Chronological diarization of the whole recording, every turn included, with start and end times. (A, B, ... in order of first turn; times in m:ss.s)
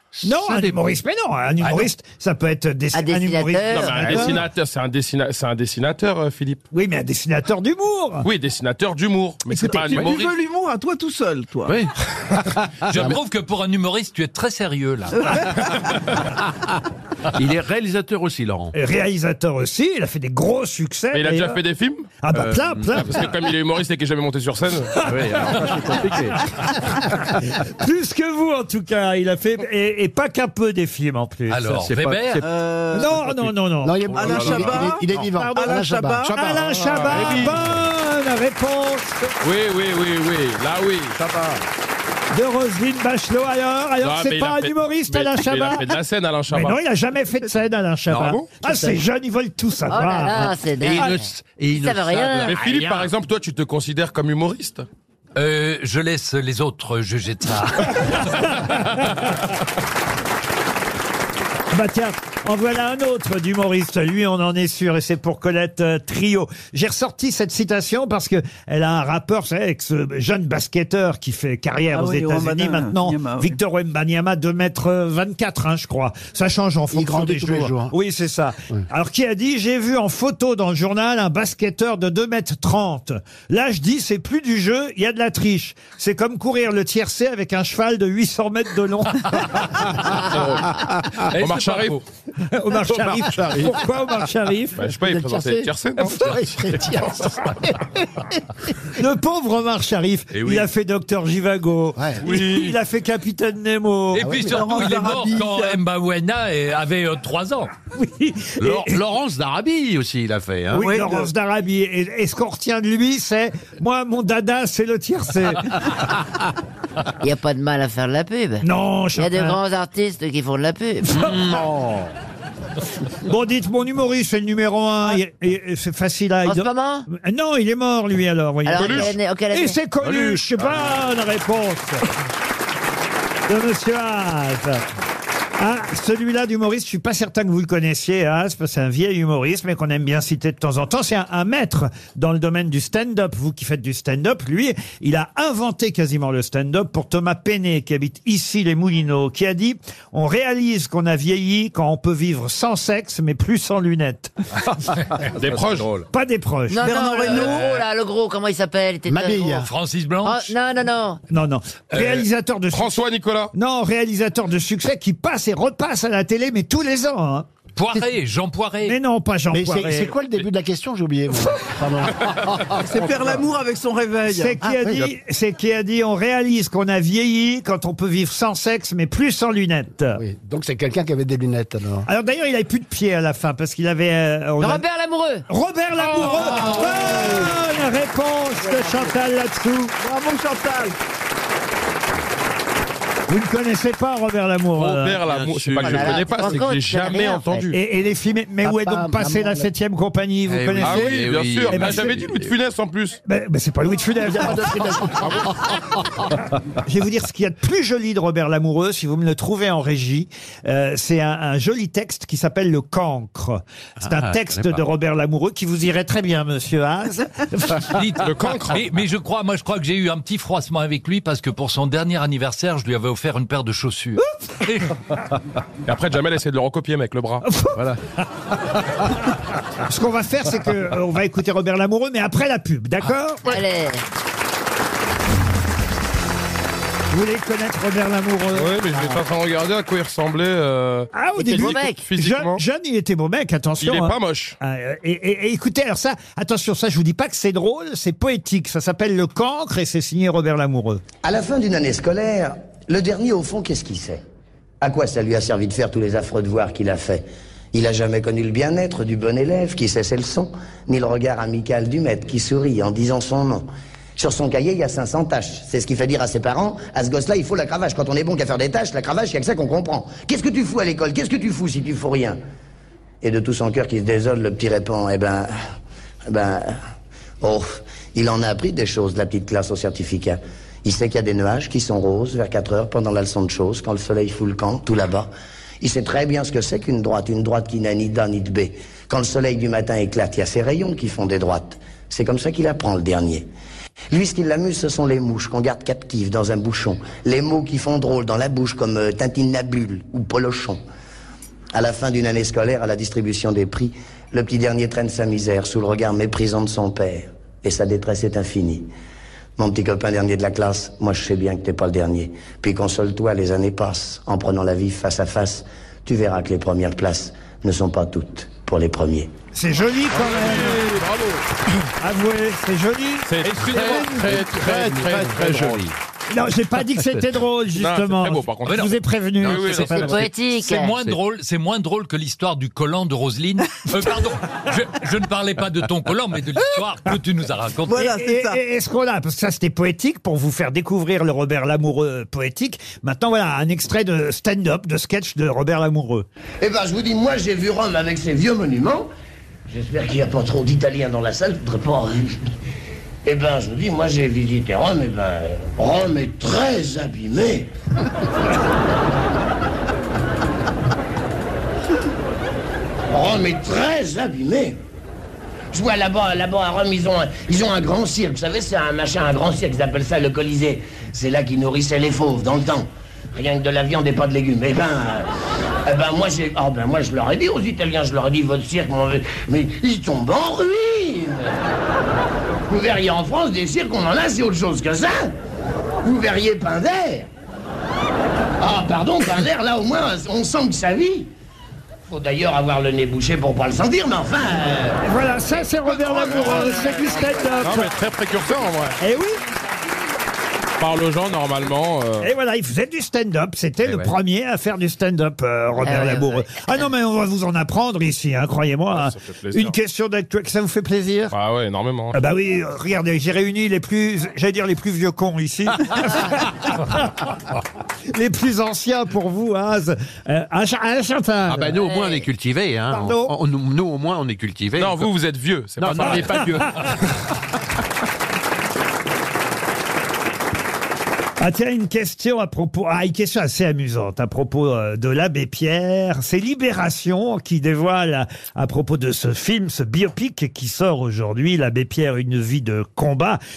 0:00.1-0:00.8 A
0:00.2-0:04.4 B
0:01.6-0:01.9 C
0:02.9-0:04.2 D
0:03.7-0:06.6 E
0:06.7-0:08.3 B
0:08.2-0:10.4 E
0:09.5-0:10.0 B
0:09.9-0:11.8 F
0:11.6-0:13.1 A
0:12.9-0:15.3 C
0:15.2-0:15.5 F
0:15.4-0:16.2 A
0:17.4-0:18.7 A
0:18.7-0:21.6 B
0:21.1-0:22.1 E
0:22.2-0:23.3 B
0:22.3-0:23.2 A
0:22.9-0:25.0 E
0:25.0-0:26.5 A
0:25.0-0:26.0 B
0:27.5-0:31.6 B
0:31.5-0:32.4 C
0:31.5-0:33.5 A
0:32.4-0:33.3 F
0:32.9-0:39.3 B
0:33.8-0:36.2 G
0:34.1-0:35.4 A
0:34.1-0:36.4 F
0:36.2-0:37.8 A
0:36.8-0:37.5 E
0:39.4-0:41.2 E
0:41.2-0:41.6 A
0:42.3-0:45.9 B
0:44.0-0:46.8 E
0:46.5-0:51.1 B
0:48.1-0:48.5 A
0:49.9-0:52.6 D
0:50.4-0:53.1 A
0:52.4-0:54.8 E
0:55.4-0:58.4 C
0:58.3-0:59.0 B
1:01.7-1:29.8 B
1:11.9-1:13.6 F
1:16.9-1:17.9 G
1:30.0-1:32.0 E
1:31.2-1:32.0 C
1:32.5-1:34.9 B
1:34.8-1:37.0 E
1:34.9-1:37.9 G
1:36.0-1:36.4 B
1:38.9-1:44.4 B
1:40.3-1:40.7 A
1:42.0-1:42.3 G
1:44.1-1:47.7 C
1:44.2-1:44.8 G
1:44.5-1:45.8 F
1:47.9-1:49.0 B
1:48.6-1:51.0 A
1:50.7-1:55.8 B
1:50.8-1:51.3 F
1:57.2-1:58.6 D
1:58.6-1:59.6 B
1:59.2-2:01.2 D
2:01.1-2:01.6 B
2:01.1-2:02.1 A
2:03.2-2:12.0 B
2:06.4-2:07.1 D
2:08.6-2:09.8 D
2:08.7-2:09.1 E
2:10.0-2:11.0 A
2:13.5-2:14.8 B
2:15.6-2:34.3 B
2:35.2-2:36.0 A
2:35.4-2:35.9 E
2:36.1-2:36.9 B
2:36.7-2:39.6 D
2:36.8-2:37.8 F
2:39.1-2:39.7 G
2:39.4-2:40.5 C
2:40.2-2:41.2 D
2:41.3-2:43.0 B
2:42.7-2:43.5 E
2:43.5-2:47.5 B
2:47.7-2:49.0 C
2:48.8-2:50.1 B
2:49.5-2:53.2 G
2:52.8-2:54.6 F
2:54.3-3:00.2 B
2:54.6-2:55.1 G
3:00.1-3:02.1 G
3:02.0-3:04.8 B
3:04.6-3:05.4 D
3:05.5-3:09.9 B
3:10.0-3:10.9 F
3:13.3-3:15.2 B
3:14.8-3:16.6 A
3:14.8-3:17.8 E
3:15.8-3:17.7 D
3:17.7-3:22.3 B
3:18.6-3:19.7 G
3:20.5-3:22.5 A
3:20.8-3:23.2 E
3:23.2-3:25.4 B
3:24.2-3:25.4 G
3:26.8-3:38.1 B
3:34.0-3:34.8 A
3:37.9-3:44.9 C
3:38.2-3:38.8 E
3:45.8-3:47.4 E
3:47.4-3:47.9 B
3:47.7-3:48.0 A
3:49.8-3:53.6 B
3:53.4-3:54.0 D
3:57.1-3:58.8 B
3:58.5-4:02.6 E
4:01.1-4:11.0 B
4:01.5-4:02.0 D
4:03.8-4:04.6 E
4:11.2-4:14.2 H
4:14.8-4:32.4 H
4:33.2-4:35.5 H
4:36.3-4:36.7 H
4:37.4-4:45.3 H
4:45.8-4:53.5 H
4:54.1-5:00.8 H
5:01.7-5:08.9 H
5:09.6-5:19.3 H
5:19.5-5:20.9 B
5:20.1-5:21.4 E
5:22.0-5:24.3 B
5:23.2-5:25.8 E
5:23.4-5:26.0 A
5:26.3-5:30.0 B
5:27.8-5:30.2 E
5:28.6-5:28.9 C
5:29.4-5:30.3 A
5:29.7-5:30.9 D
5:30.6-5:38.1 C
5:37.8-5:38.6 F
5:38.0-5:46.3 B
5:46.6-5:49.1 H
5:49.7-5:52.4 H
5:53.2-5:57.7 H
6:03.1-6:04.8 H
6:05.7-6:15.3 H
6:15.8-6:21.6 H
6:22.7-6:25.3 H
6:26.0-6:27.3 H
6:28.6-6:31.3 H
6:32.1-6:35.0 H
6:35.0-6:37.9 B
6:37.6-6:39.0 E
6:39.0-6:39.4 B
6:40.8-6:42.3 E
6:42.2-6:51.3 B
6:43.8-6:44.1 A
6:45.8-6:46.9 D
6:48.9-6:49.7 E
6:51.3-6:52.2 E
6:52.1-6:57.3 B
6:58.1-7:01.9 B
7:01.5-7:05.1 A
7:02.9-7:03.3 B
7:04.8-7:06.9 E
7:05.8-7:06.8 A
7:06.0-7:06.8 B
7:11.4-7:23.4 B